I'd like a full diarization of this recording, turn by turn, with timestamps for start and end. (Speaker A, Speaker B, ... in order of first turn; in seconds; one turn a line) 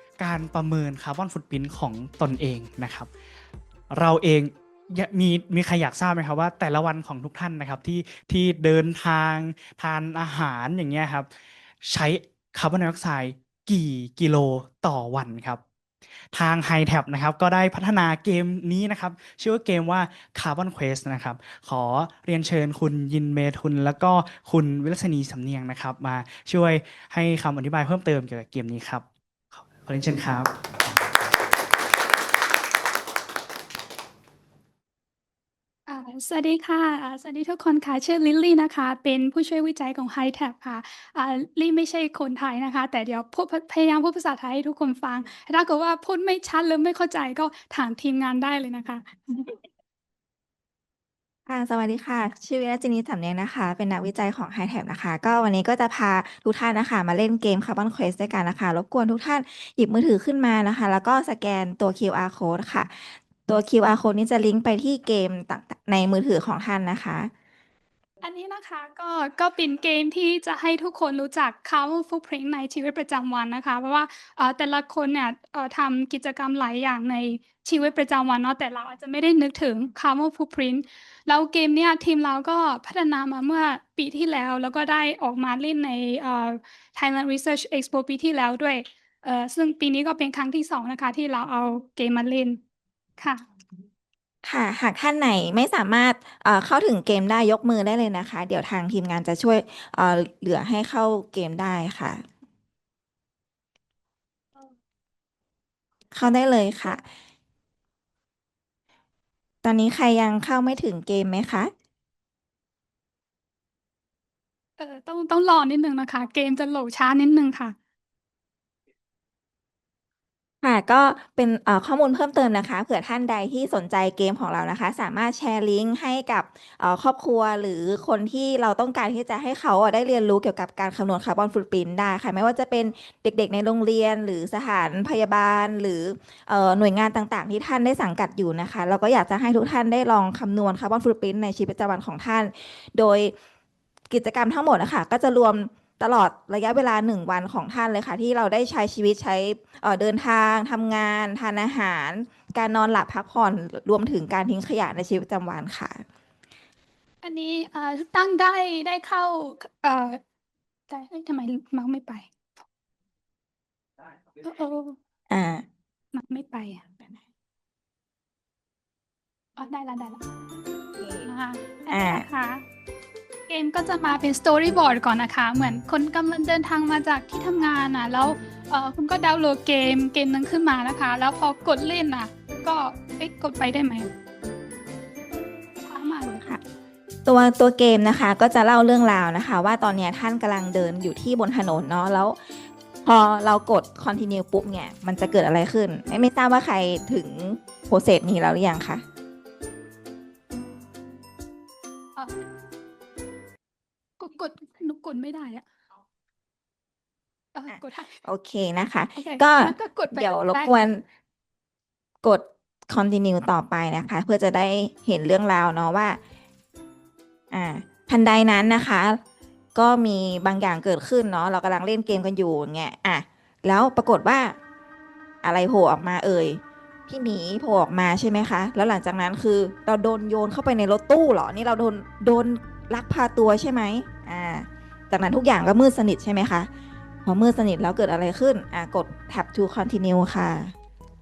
Speaker A: 0.2-3.1
Speaker A: 3.9-11.3
Speaker A: 11.8-15.6
Speaker A: 16.3-30.5
Speaker B: 35.9-49.6
Speaker C: 51.5-67.3
Speaker B: 68.2-92.6
Speaker B: 93.2-93.4
Speaker C: 94.4-102.2
Speaker C: 106.1-107.0
Speaker C: 109.6-111.7
Speaker B: 114.8-117.8
Speaker C: 120.6-143.3
Speaker C: 144.1-156.0
Speaker B: 157.2-160.2
Speaker B: 160.9-162.3
Speaker B: 164.4-165.0
Speaker C: 165.3-165.6
Speaker B: 166.1-166.8
Speaker B: 169.6-170.3
Speaker C: 171.0-171.3
Speaker B: 171.2-172.6
Speaker C: 171.9-172.2
Speaker B: 173.5-184.1
Speaker B: 185.8-186.6
Speaker C: 187.2-192.4
Speaker C: 193.0-199.0
Speaker B: 204.2-205.6
Speaker B: 207.5-208.1
Speaker C: 207.7-211.0
Speaker B: 209.2-210.9
Speaker C: 212.2-216.2
Speaker C: 217.5-219.2
Speaker C: 219.7-224.6
Speaker C: 225.4-236.7
Speaker C: 237.2-240.7